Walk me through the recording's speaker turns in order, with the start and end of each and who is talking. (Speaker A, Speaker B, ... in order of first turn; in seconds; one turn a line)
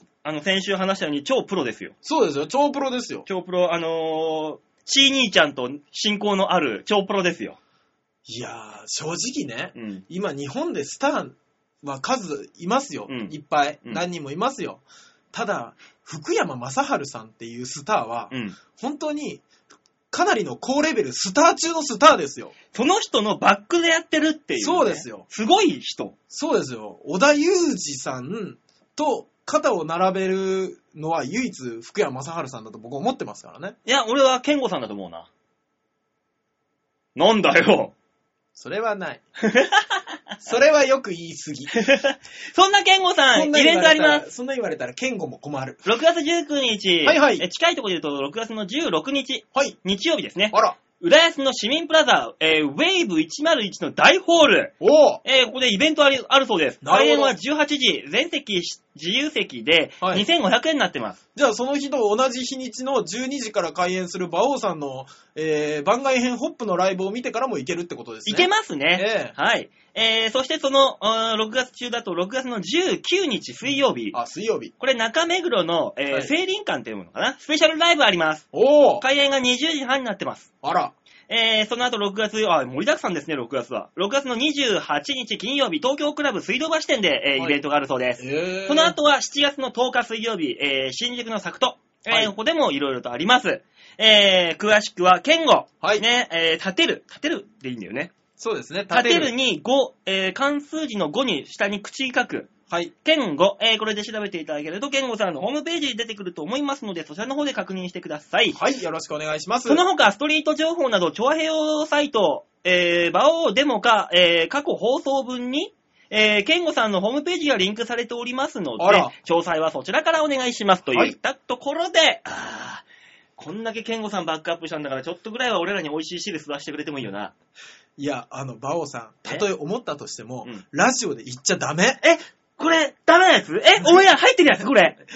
Speaker A: 0.2-1.9
Speaker B: 2.0-3.2
Speaker A: 3.3-7.6
Speaker B: 8.3-19.4
Speaker A: 9.8-10.1
Speaker A: 13.1-13.3
Speaker A: 18.3-18.6
Speaker B: 20.1-22.5
Speaker A: 22.7-26.1
Speaker B: 24.6-25.3
Speaker B: 26.3-33.8
Speaker A: 33.9-35.3
Speaker A: 37.2-37.9
Speaker B: 38.5-39.2
Speaker A: 39.4-40.0
Speaker B: 40.4-41.8
Speaker A: 41.8-44.3
Speaker B: 43.3-45.9
Speaker A: 45.9-61.2
Speaker B: 47.0-47.5
Speaker B: 50.5-50.8
Speaker B: 54.8-55.2
Speaker B: 56.8-57.3
Speaker B: 60.0-60.3
Speaker B: 61.4-69.3
Speaker A: 68.3-74.2
Speaker B: 74.1-74.7
Speaker A: 74.8-78.5
Speaker B: 78.5-79.0
Speaker A: 79.0-80.5
Speaker B: 80.6-80.9
Speaker A: 81.3-98.1
Speaker B: 88.2-89.0
Speaker B: 98.4-99.3
Speaker A: 98.9-102.5
Speaker A: 103.0-108.6
Speaker B: 108.5-109.8
Speaker A: 109.7-122.8
Speaker B: 118.8-119.1
Speaker A: 123.4-127.3
Speaker B: 128.0-132.1
Speaker A: 132.1-135.0